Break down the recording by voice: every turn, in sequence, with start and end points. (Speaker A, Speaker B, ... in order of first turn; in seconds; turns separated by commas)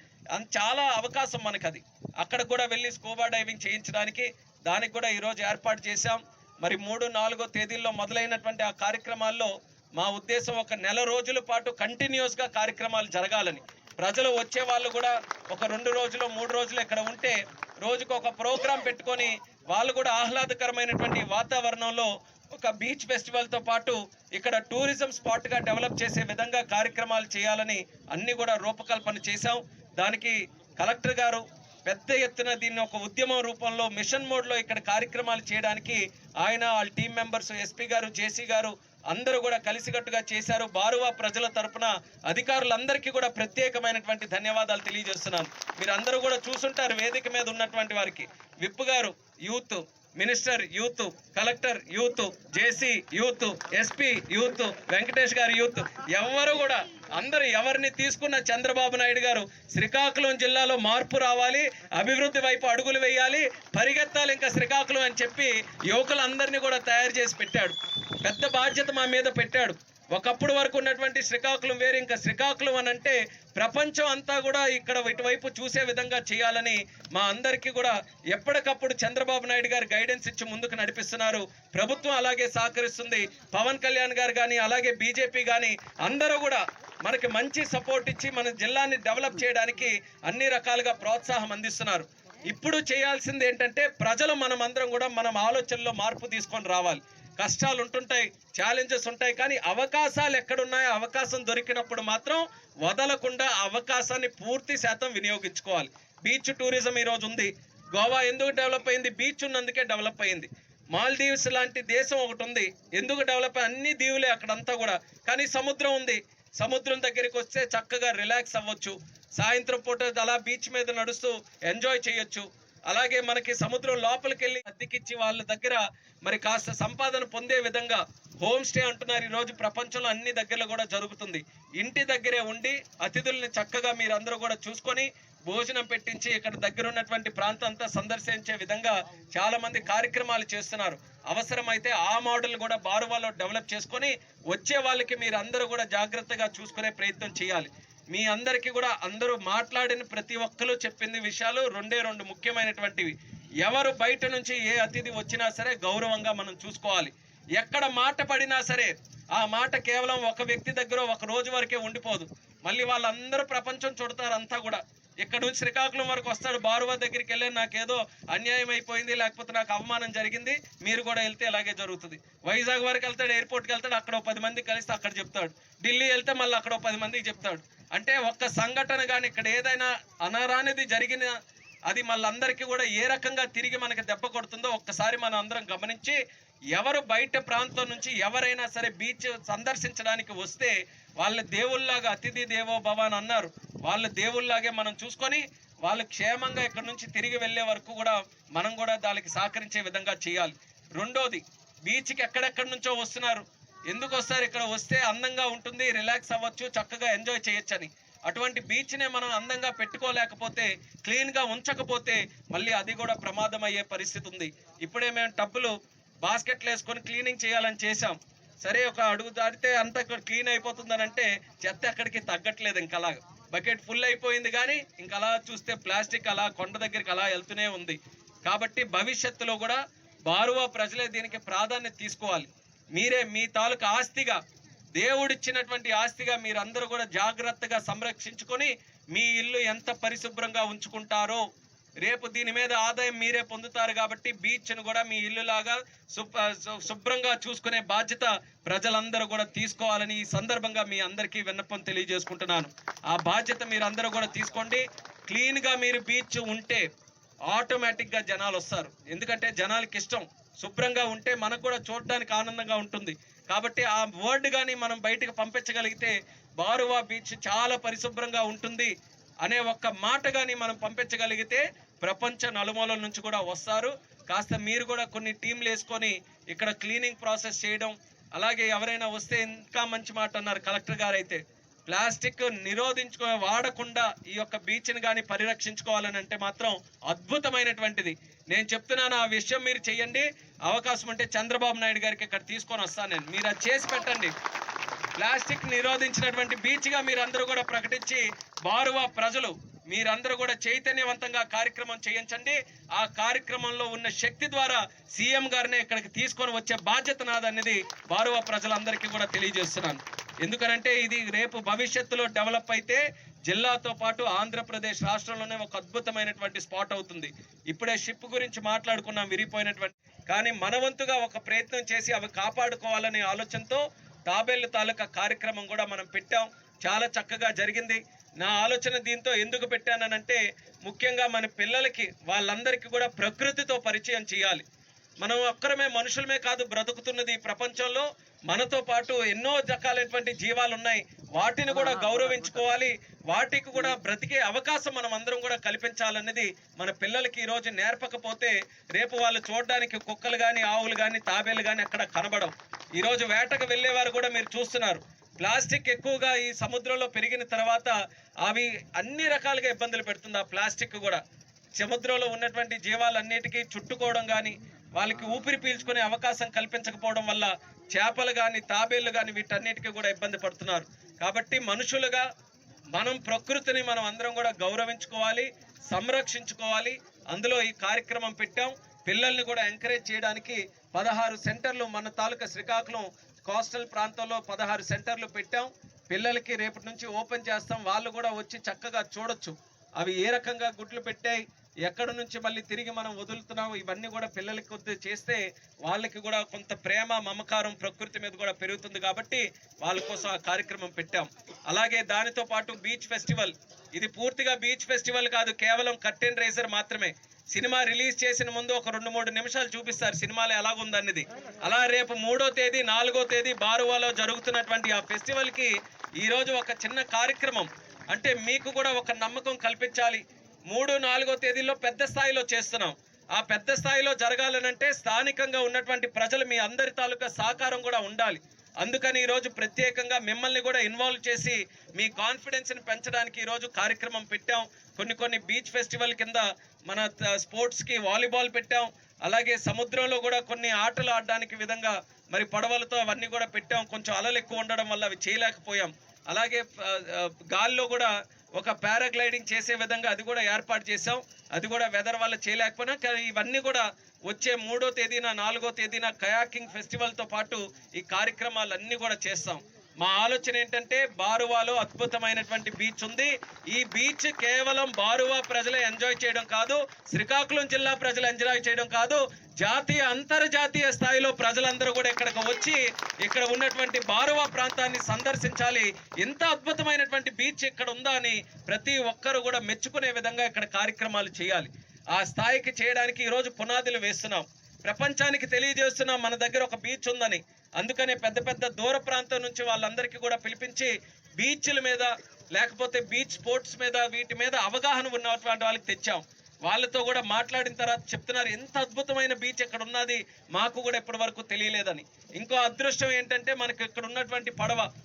Speaker A: 0.3-153.1, Speaker A: 153.6-181.3, Speaker A: 181.9-186.2, Speaker A: 186.7-234.4, Speaker A: 234.9-241.4, Speaker A: 242.0-256.8, Speaker A: 257.5-268.9, Speaker A: 269.4-294.3, Speaker A: 295.2-334.6, Speaker A: 335.2-357.9, Speaker A: 358.4-361.2, Speaker A: 361.8-372.2, Speaker A: 372.9-504.9